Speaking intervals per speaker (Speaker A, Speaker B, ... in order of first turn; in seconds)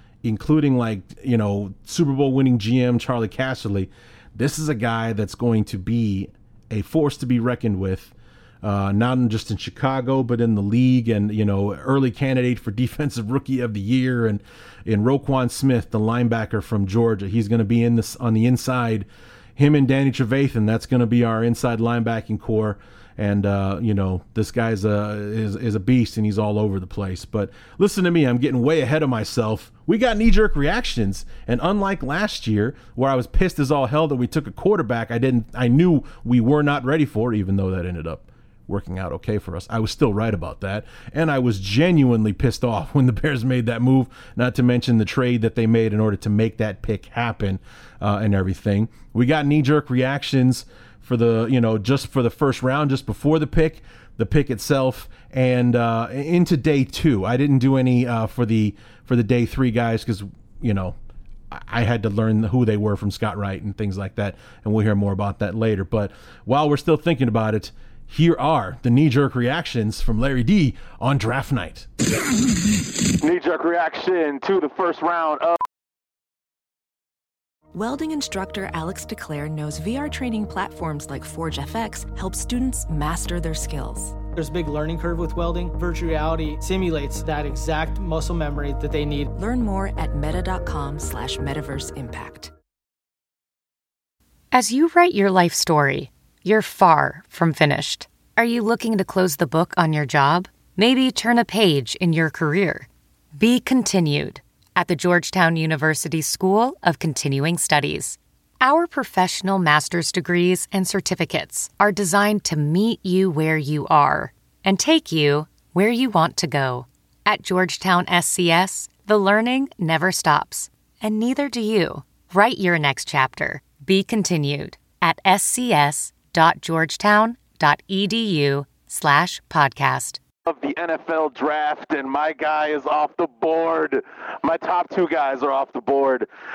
Speaker A: 0.2-61.0, 61.5-71.9
Speaker B: 73.2-75.6, 130.4-136.3
Speaker C: 77.7-84.2, 89.3-92.5
Speaker D: 84.3-89.3
Speaker E: 94.5-130.2